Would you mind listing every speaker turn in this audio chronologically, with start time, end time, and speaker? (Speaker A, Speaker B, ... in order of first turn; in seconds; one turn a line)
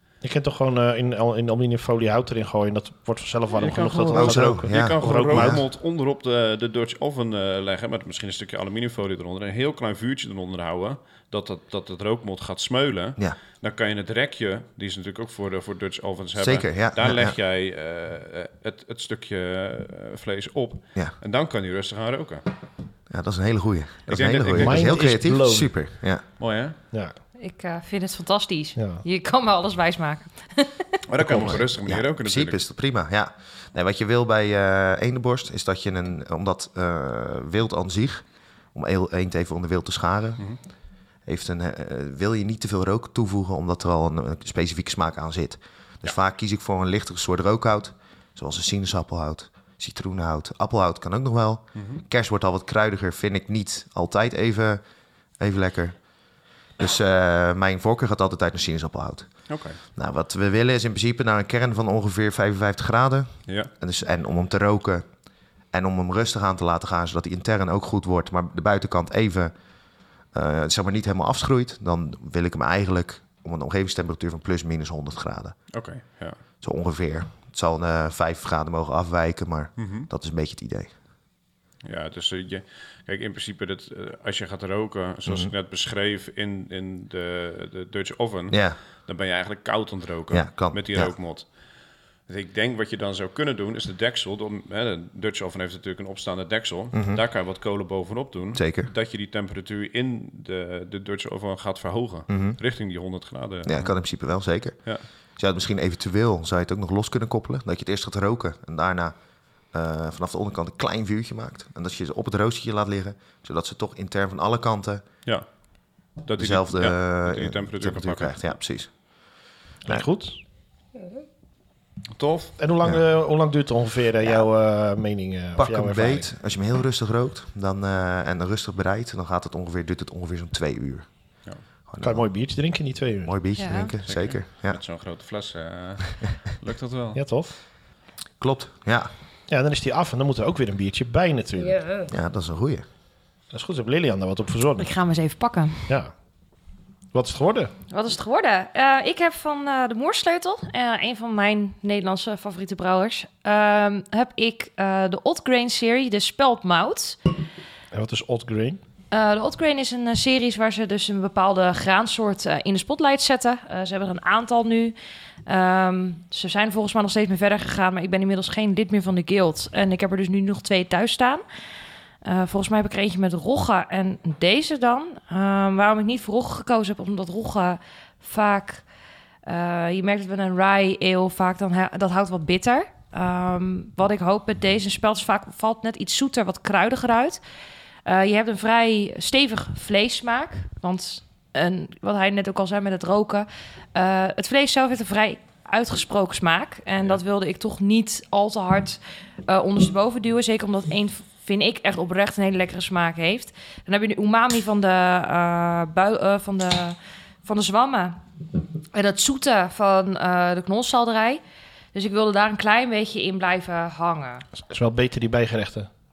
Speaker A: 0.2-5.6
Speaker B: 3.5-22.4
Speaker C: 4.1-5.6
Speaker C: 16.4-17.4
Speaker C: 23.1-26.2
Speaker B: 24.1-24.9
Speaker A: 24.6-25.7
Speaker B: 26.4-26.8
Speaker D: 27.4-30.9
Speaker A: 28.8-29.0
Speaker B: 31.1-32.6
Speaker A: 31.2-31.6
Speaker C: 31.2-40.4
Speaker C: 41.3-54.8
Speaker B: 51.8-52.0
Speaker C: 55.4-56.0
Speaker C: 56.8-65.0
Speaker B: 59.5-59.8
Speaker C: 65.7-69.5
Speaker C: 70.3-75.6
Speaker B: 75.7-76.4
Speaker C: 76.6-80.9
Speaker B: 79.8-80.1
Speaker B: 81.8-91.5
Speaker C: 85.3-85.5
Speaker C: 88.5-88.8
Speaker C: 90.3-91.1
Speaker B: 92.3-104.0
Speaker C: 96.9-97.2
Speaker C: 98.5-98.9
Speaker C: 102.3-102.6
Speaker C: 103.7-109.2
Speaker C: 109.7-115.0
Speaker B: 116.2-118.4
Speaker C: 116.4-119.0
Speaker A: 119.9-120.4
Speaker B: 122.2-122.5
Speaker A: 122.6-126.3
Speaker C: 125.6-131.1
Speaker C: 131.9-132.3
Speaker A: 132.0-133.3
Speaker C: 133.2-134.8
Speaker D: 133.6-133.9
Speaker B: 134.1-137.2
Speaker A: 137.2-137.5
Speaker C: 138.4-139.1
Speaker A: 139.5-141.8
Speaker D: 141.6-142.1
Speaker C: 142.1-142.8
Speaker A: 143.5-144.9
Speaker D: 144.8-145.9
Speaker A: 147.1-147.7
Speaker D: 147.9-157.2
Speaker A: 157.9-158.8
Speaker D: 159.1-164.9
Speaker D: 165.5-171.4
Speaker D: 172.2-178.8
Speaker D: 179.5-187.4
Speaker D: 188.1-208.2
Speaker D: 208.9-211.4
Speaker D: 211.9-214.4
Speaker A: 214.6-215.9